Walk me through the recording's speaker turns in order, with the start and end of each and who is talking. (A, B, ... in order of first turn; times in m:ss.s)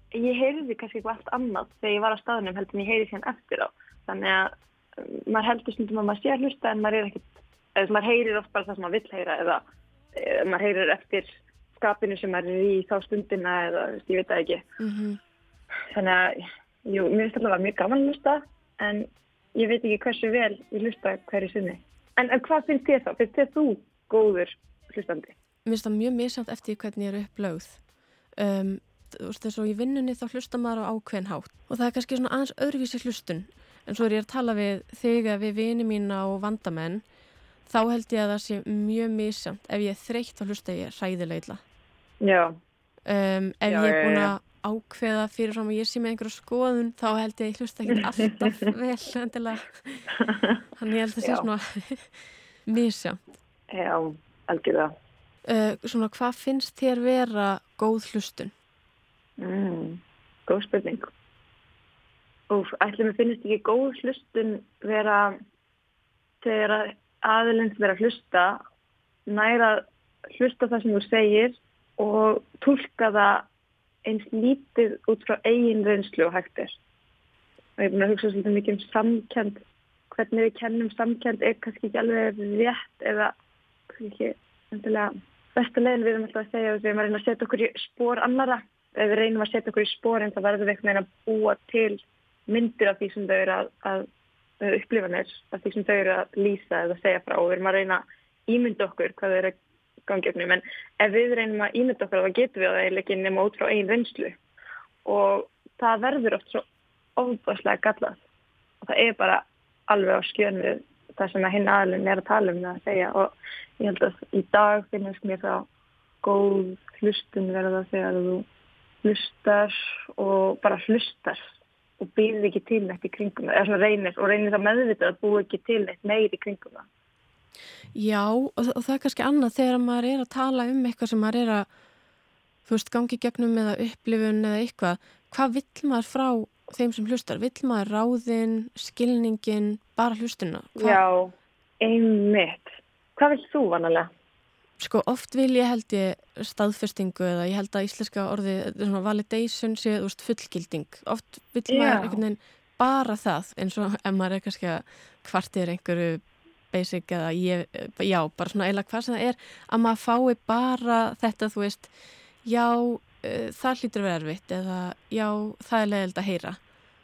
0:00.1-0:09.6 A
0:10.2-0:14.6 A
0:14.8-0:15.2 B
0:15.9-0:25.3 A
0:25.7-0:27.8 B
0:28.4-0:37.0 B
0:37.7-0:41.6 B
0:42.2-0:42.6 A
0:43.1-0:50.1 B
0:43.7-0:44.3 A
0:50.2-0:50.6 A
0:50.8-0:52.1 B
0:52.7-0:53.2 B
0:53.7-0:54.9 A
0:55.5-0:58.5 B
0:59.4-1:01.1 A
1:02.5-1:05.4 A
1:06.4-1:08.6 A
1:09.3-1:13.5 A
1:14.1-1:16.8 A
1:17.8-1:23.3 A
1:23.9-1:34.1 A
1:34.6-1:39.6 A
1:40.1-1:44.4 A
1:45.1-1:46.6 A
1:47.2-1:48.2 A
1:48.8-1:55.7 A
1:56.2-1:58.5 A
1:59.0-2:01.4 A
2:02.0-2:06.9 A
2:07.9-2:11.7 B
2:12.7-2:21.0 B
2:20.8-2:24.1 A
2:24.8-2:41.9 B
2:31.7-2:32.2 A
2:42.4-2:46.6 B